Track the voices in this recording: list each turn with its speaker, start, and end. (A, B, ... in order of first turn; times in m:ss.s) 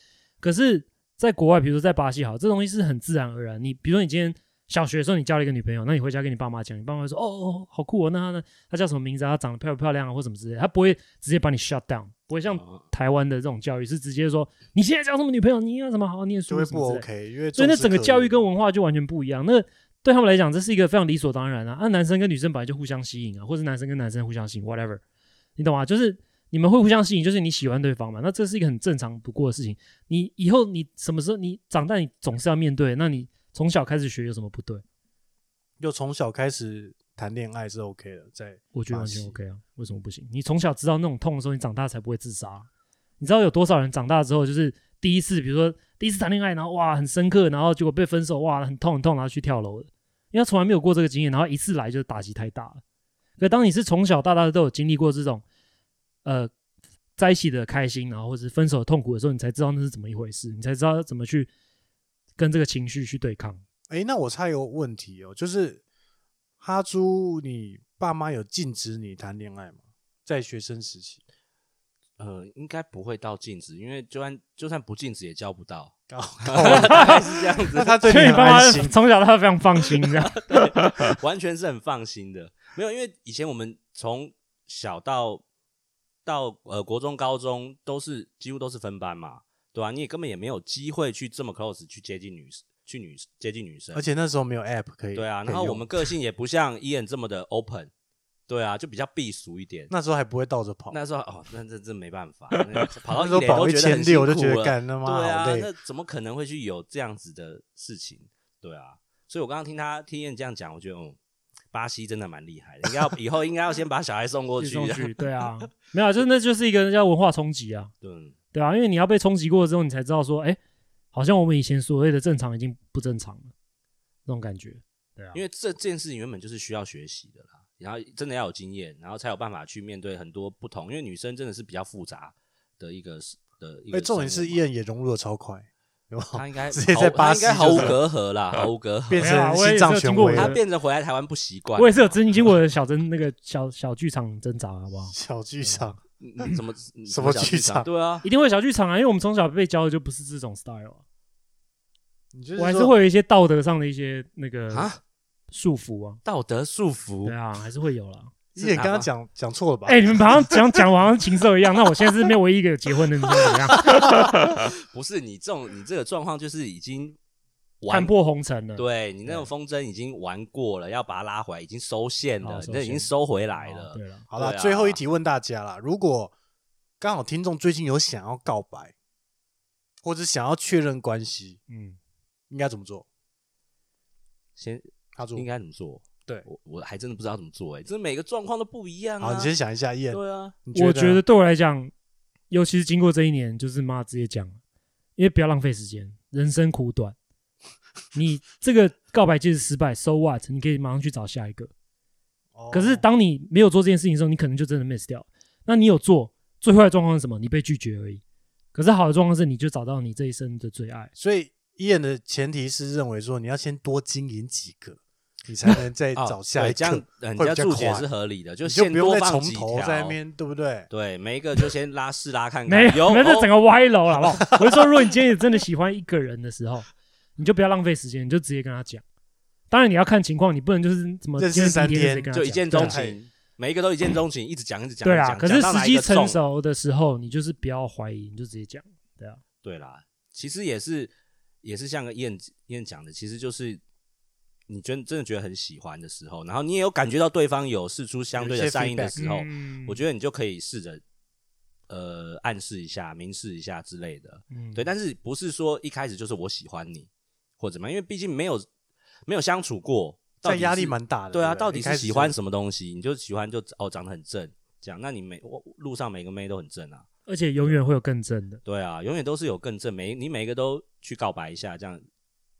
0:00.4-0:25.0 A
0:12.5-0:12.8 B
0:16.5-0:18.4 C
0:25.6-0:34.8 A
0:35.8-0:39.4 C
0:38.7-0:42.7 A
0:43.2-0:52.8 A
0:53.4-0:55.4 A
0:56.2-0:56.5 A
0:57.2-1:01.5 A
1:02.4-1:03.6 A
1:03.9-1:05.8 C
1:06.6-1:11.2 C
1:12.2-1:15.9 B
1:16.1-1:17.2 C
1:16.4-1:18.4 B
1:16.6-1:17.1 A
1:17.7-1:19.0 C
1:18.1-1:20.4 A
1:20.1-1:25.4 B
1:26.2-1:34.1 B
1:33.9-1:35.9 C
1:35.1-1:37.9 B
1:38.5-1:39.9 B
1:39.9-1:41.0 C
1:40.9-1:51.2 B
1:43.1-1:45.7 C
1:51.7-1:55.6 B
1:54.6-1:57.9 A
1:58.0-1:58.3 B
1:58.5-2:00.6 A
2:01.1-2:03.5 A
2:04.2-2:05.4 A
2:05.3-2:14.6 B
2:13.9-2:18.0 C
2:16.3-2:19.3 B
2:19.1-2:20.6 C
2:19.2-2:20.6 A
2:20.3-2:22.2 B
2:21.8-2:25.9 A
2:25.1-2:26.0 C
2:26.2-2:28.2 B
2:27.1-2:27.9 C
2:28.2-2:31.0 A
2:32.3-2:32.9 C
2:32.6-2:34.9 A
2:34.7-2:35.0 B
2:35.5-2:36.2 A
2:36.2-2:37.4 B
2:37.2-2:38.3 A
2:38.5-2:39.1 B
2:38.6-2:40.2 C
2:39.8-2:43.8 A
2:43.7-2:47.2 B
2:47.8-2:48.1 B
2:47.9-2:49.3 A
2:48.8-2:55.0 B
2:52.4-2:54.2 A
2:54.3-2:56.3 C
2:57.0-2:58.9 C
3:00.0-3:01.6 C
3:01.7-3:02.0 A
3:02.5-3:03.0 C
3:04.6-3:09.5 B
3:05.2-3:05.5 C
3:09.2-3:11.2 C
3:10.1-3:10.6 B
3:10.7-3:11.9 A
3:12.5-3:14.6 A
3:15.2-3:17.2 A
3:18.1-3:21.7 A
3:22.5-3:23.0 C
3:22.7-3:28.2 A
3:28.7-3:31.1 A
3:31.2-3:38.1 C
3:36.2-3:40.2 B
3:38.6-3:40.9 C
3:40.9-3:43.5 B
3:42.7-3:49.0 A
3:49.7-3:53.0 A
3:51.4-3:53.2 C
3:52.3-3:56.4 B
3:55.0-3:59.4 A
3:59.6-4:03.8 B
4:04.7-4:11.0 B
4:08.3-4:09.2 C
4:09.2-4:10.0 A
4:11.9-4:18.7 B
4:14.5-4:14.9 A
4:19.3-4:27.1 B
4:20.4-4:22.3 C
4:27.3-4:28.6 A
4:28.6-4:32.0 B